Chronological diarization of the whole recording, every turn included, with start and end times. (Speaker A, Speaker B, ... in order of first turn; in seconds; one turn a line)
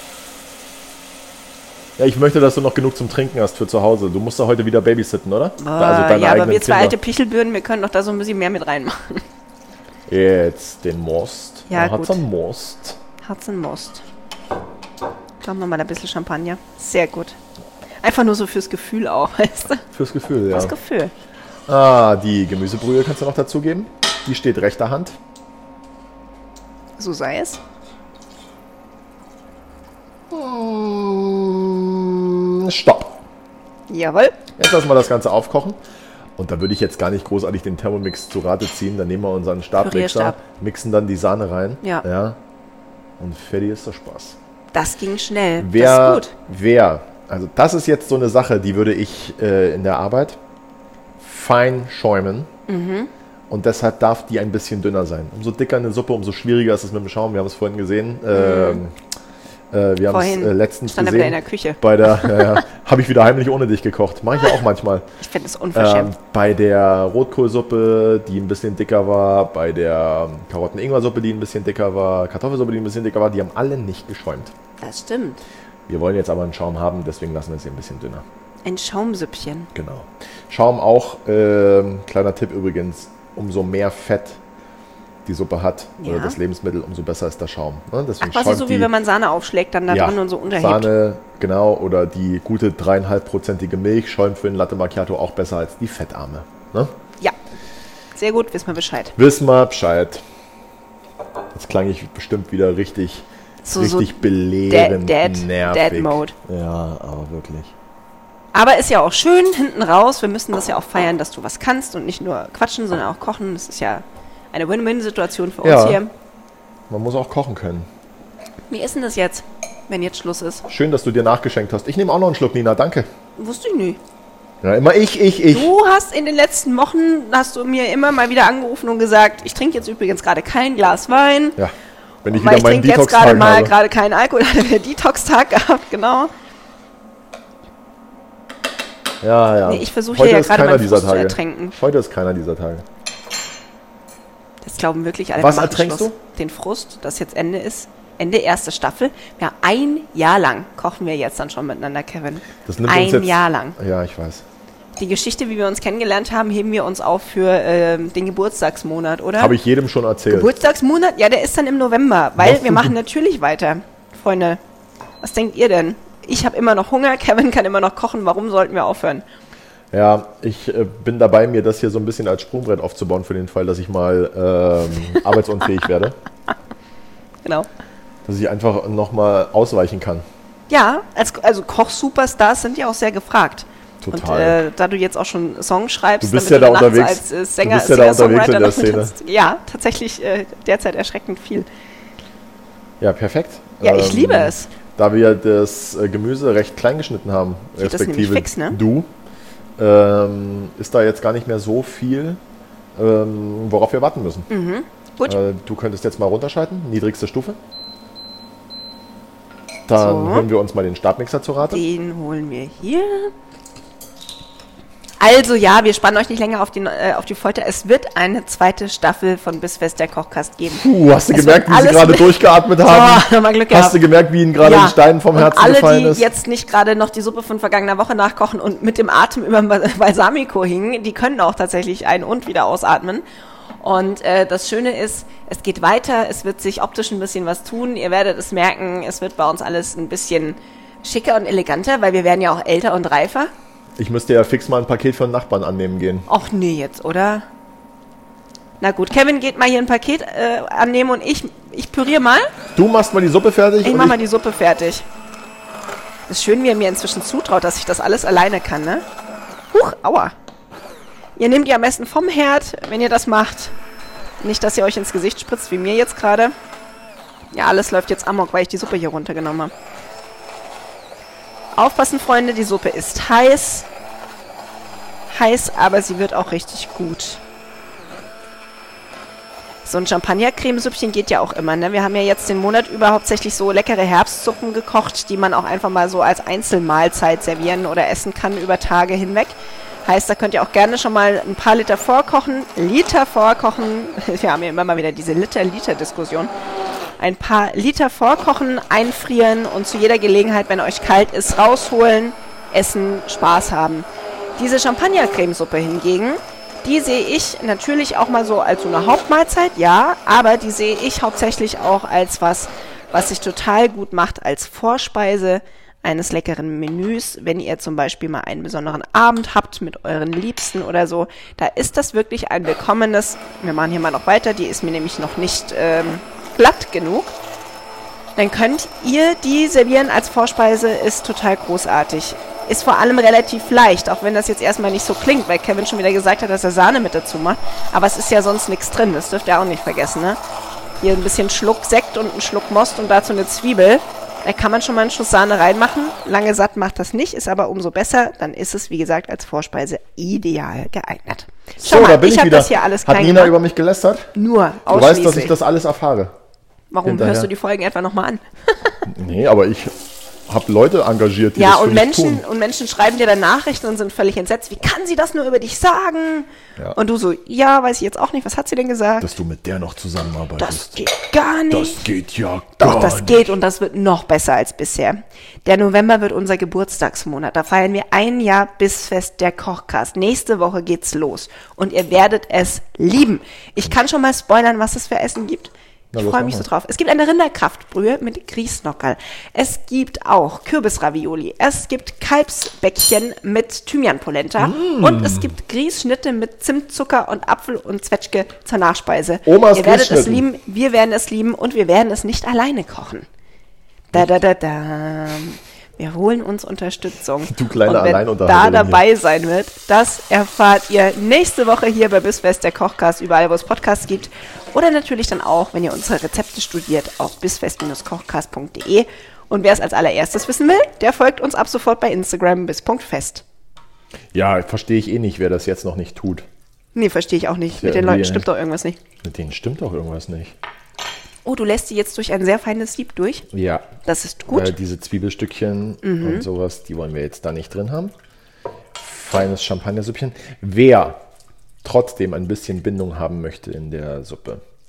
Speaker A: 2.0-7.0
Speaker B: 5.6-9.2
Speaker A: 10.1-13.0
Speaker B: 11.7-12.2
Speaker B: 13.2-14.0
Speaker B: 15.4-17.4
Speaker B: 18.0-19.8
Speaker A: 19.9-20.7
Speaker B: 20.5-21.1
Speaker A: 21.7-25.2
Speaker B: 27.0-27.6
Speaker A: 30.3-33.2
Speaker B: 33.9-34.4
Speaker A: 34.6-35.8
Speaker A: 36.4-42.4
Speaker B: 39.8-40.4
Speaker A: 43.2-44.4
Speaker B: 44.7-46.3
Speaker A: 45.6-50.4
Speaker A: 51.2-52.5
Speaker B: 52.7-53.1
Speaker A: 53.5-58.9
Speaker B: 58.3-58.8
Speaker A: 59.7-65.1
Speaker B: 60.1-62.6
Speaker B: 65.2-66.1
Speaker A: 65.7-74.5
Speaker B: 74.8-75.4
Speaker A: 75.9-78.2
Speaker B: 78.6-79.7
Speaker A: 79.7-84.4
Speaker A: 85.2-88.9
Speaker B: 86.0-86.4
Speaker B: 88.2-90.9
Speaker A: 89.9-97.0
Speaker B: 98.1-99.2
Speaker A: 99.2-100.2
Speaker A: 101.5-107.7
Speaker B: 103.6-106.3
Speaker B: 108.5-116.1
Speaker A: 115.6-116.0
Speaker A: 116.9-117.9
Speaker B: 118.7-120.6
Speaker A: 120.7-123.1
Speaker B: 123.4-124.0
Speaker A: 124.6-125.7
Speaker B: 125.5-131.6
Speaker A: 131.6-133.7
Speaker B: 132.3-136.3
Speaker A: 139.2-142.8
Speaker B: 139.7-141.8
Speaker B: 144.6-153.8
Speaker A: 145.4-146.2
Speaker A: 152.6-154.4
Speaker B: 155.0-159.6
Speaker A: 159.4-160.6
Speaker B: 160.3-164.6
Speaker A: 162.4-162.9
Speaker B: 165.2-169.2
Speaker A: 169.9-176.2
Speaker A: 178.2-180.2
Speaker B: 180.7-191.7
Speaker A: 184.0-184.6
Speaker A: 186.2-189.1
Speaker A: 193.0-199.1
Speaker B: 193.8-194.7
Speaker B: 197.8-198.8
Speaker A: 199.8-202.4
Speaker A: 202.9-204.5
Speaker B: 204.5-205.4
Speaker A: 205.2-207.6
Speaker A: 209.9-211.8
Speaker B: 209.9-210.5
Speaker B: 211.6-213.3
Speaker B: 215.2-224.0
Speaker A: 220.7-226.3
Speaker B: 224.6-233.2
Speaker B: 233.8-243.5
Speaker A: 244.0-246.3
Speaker B: 246.3-247.4
Speaker B: 248.8-252.5
Speaker A: 252.8-254.2
Speaker B: 253.8-255.0
Speaker B: 256.3-259.0
Speaker B: 259.7-260.3
Speaker B: 261.4-263.7
Speaker B: 264.4-266.5
Speaker B: 267.5-269.7
Speaker B: 271.8-273.9
Speaker B: 275.3-277.4
Speaker B: 279.8-296.5
Speaker B: 297.2-327.3
Speaker B: 328.4-340.4
Speaker B: 341.0-353.6
Speaker A: 351.8-354.3
Speaker B: 354.3-355.6
Speaker A: 354.9-356.4
Speaker B: 356.9-359.0
Speaker A: 357.0-357.5
Speaker A: 359.1-359.9
Speaker A: 360.5-362.4
Speaker B: 361.6-369.3
Speaker A: 369.2-371.0
Speaker B: 370.6-372.1
Speaker A: 371.7-373.5
Speaker B: 372.8-403.3
Speaker A: 386.1-386.7
Speaker A: 394.6-395.5
Speaker A: 399.4-400.4
Speaker B: 404.1-423.4
Speaker A: 407.4-409.0
Speaker A: 424.3-426.4
Speaker B: 426.9-429.0
Speaker A: 427.7-428.5
Speaker A: 429.2-430.6
Speaker B: 431.4-433.4
Speaker A: 433.5-433.9
Speaker B: 434.0-434.7
Speaker A: 434.5-438.1
Speaker B: 436.0-436.5
Speaker A: 438.9-441.2
Speaker A: 441.8-444.6